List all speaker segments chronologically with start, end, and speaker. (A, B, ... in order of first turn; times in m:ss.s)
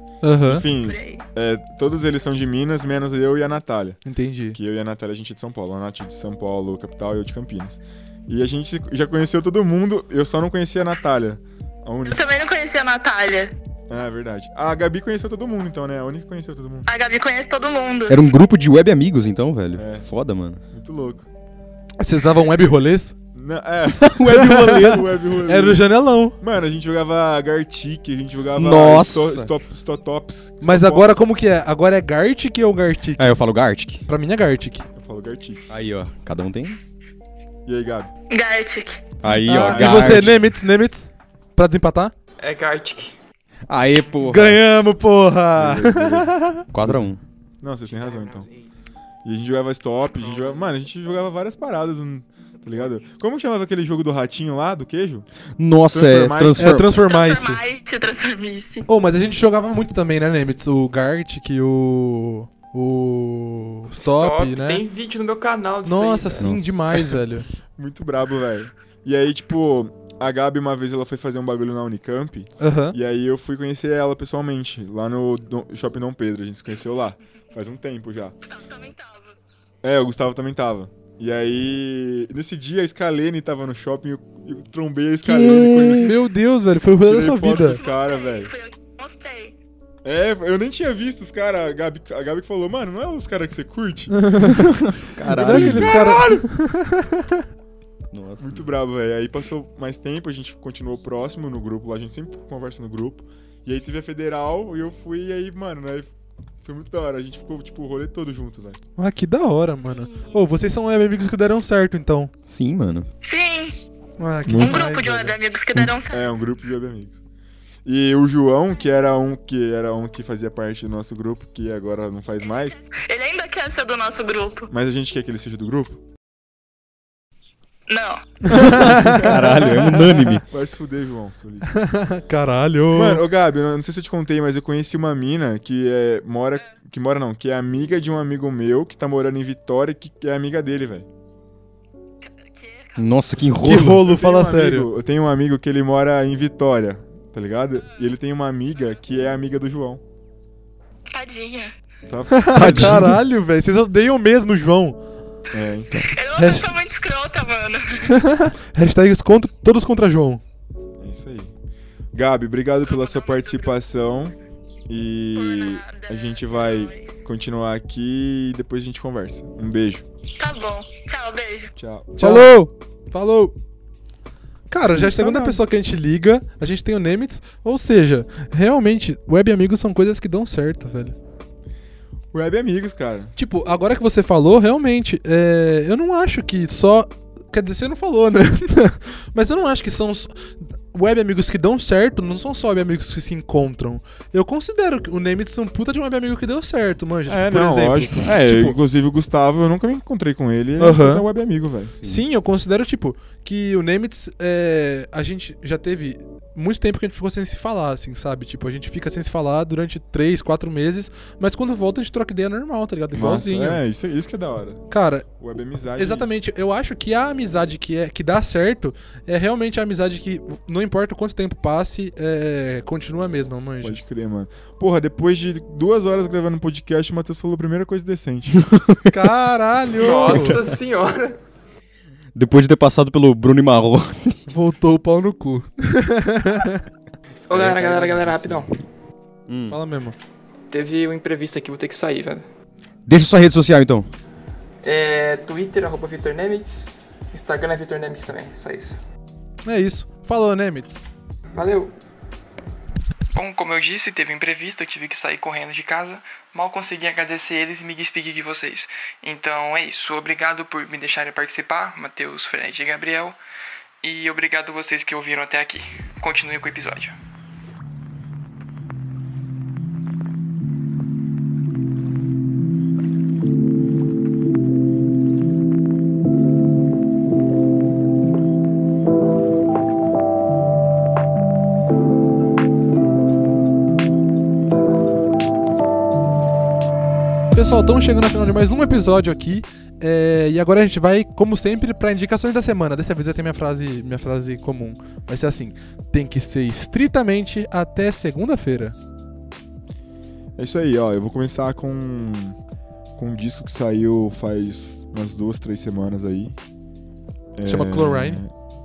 0:00.2-0:00.6 A
0:00.4-0:04.0 B
0:00.9-0:01.2 C
0:04.0-0:04.6 A
0:04.5-0:12.3 B
0:12.1-0:13.5 C
0:13.9-0:16.9 B
0:16.9-0:18.3 C
0:18.1-0:20.6 D
0:19.7-0:20.1 B
0:20.7-0:21.3 B
0:22.0-0:23.1 A
0:23.3-0:31.2 B
0:24.2-0:25.0 D
0:24.3-0:26.4 A
0:28.6-0:29.5 D
0:30.6-0:33.4 A
0:33.2-0:34.0 D
0:34.1-0:34.9 A
0:35.0-0:35.6 B
0:35.7-0:36.8 D
0:37.7-0:38.1 B
0:38.3-0:39.1 C
0:39.2-0:40.4 D
0:39.4-0:42.1 A
0:39.6-0:40.3 B
0:42.4-0:43.2 E
0:43.7-0:44.6 D
0:44.3-0:46.7 A
0:45.6-0:47.2 D
0:47.6-0:48.5 B
0:49.2-0:55.3 B
0:55.6-0:56.9 D
0:55.9-0:56.8 B
0:56.6-0:57.6 A
0:56.9-0:58.9 C
0:58.9-1:04.8 A
1:04.0-1:06.6 E
1:05.8-1:07.5 A
1:06.4-1:06.7 D
1:07.8-1:18.4 B
1:12.6-1:13.0 A
1:18.4-1:19.4 C
1:19.8-1:26.2 B
1:25.2-1:27.8 A
1:27.0-1:28.5 B
1:27.6-1:29.6 C
1:30.0-1:34.5 B
1:34.2-1:37.4 A
1:35.0-1:36.1 D
1:35.4-1:36.5 B
1:38.1-1:38.7 D
1:38.4-1:46.1 B
1:46.6-1:48.8 B
1:49.0-1:52.3 A
1:52.5-1:53.1 D
1:53.2-1:53.8 C
1:54.2-1:55.4 A
1:54.5-1:54.8 B
1:54.6-1:56.2 C
1:55.8-1:57.2 B
1:57.8-2:02.8 B
2:02.6-2:04.7 C
2:04.7-2:06.0 B
2:07.9-2:08.2 C
2:08.5-2:09.3 A
2:08.6-2:10.5 D
2:08.9-2:11.8 B
2:11.7-2:13.2 A
2:12.9-2:21.1 B
2:22.3-2:23.0 C
2:23.0-2:24.1 D
2:23.6-2:24.9 A
2:24.0-2:30.0 B
2:31.1-2:31.7 C
2:32.1-2:33.1 B
2:32.3-2:35.0 A
2:32.5-2:33.2 D
2:35.5-2:35.9 B
2:36.1-2:38.2 C
2:36.4-2:36.7 A
2:38.1-2:40.4 A
2:41.0-2:41.5 B
2:42.1-2:44.4 B
2:42.9-2:43.7 C
2:44.9-2:50.1 B
2:45.4-2:47.1 C
2:50.4-2:51.7 C
2:51.8-2:52.4 B
2:52.2-2:53.6 A
2:52.2-2:52.6 D
2:54.7-3:01.2 A
2:54.9-2:55.6 B
3:02.3-3:03.3 B
3:03.4-3:18.8 A
3:17.3-3:21.9 B
3:20.8-3:21.3 A
3:22.0-3:33.8 A
3:33.1-3:36.4 B
3:34.9-3:35.3 A
3:36.0-3:44.0 A
3:43.8-3:48.7 B
3:48.6-3:49.0 D
3:49.1-3:50.6 A
3:50.0-3:51.4 E
3:50.3-3:50.6 D
3:52.4-3:54.4 D
3:54.5-3:56.8 A
3:57.4-3:58.7 E
3:57.6-3:58.6 A
3:59.5-3:59.8 D
3:59.7-4:00.2 A
4:00.7-4:02.5 E
4:03.1-4:04.1 D
4:04.8-4:09.0 E
4:09.6-4:11.0 A
4:11.6-4:11.9 E
4:13.3-4:23.4 E
4:24.0-4:27.2 E
4:47.5-4:59.0 A
5:00.6-5:02.6 B
5:03.2-5:06.6 B
5:07.6-5:08.5 B
5:07.6-5:08.4 A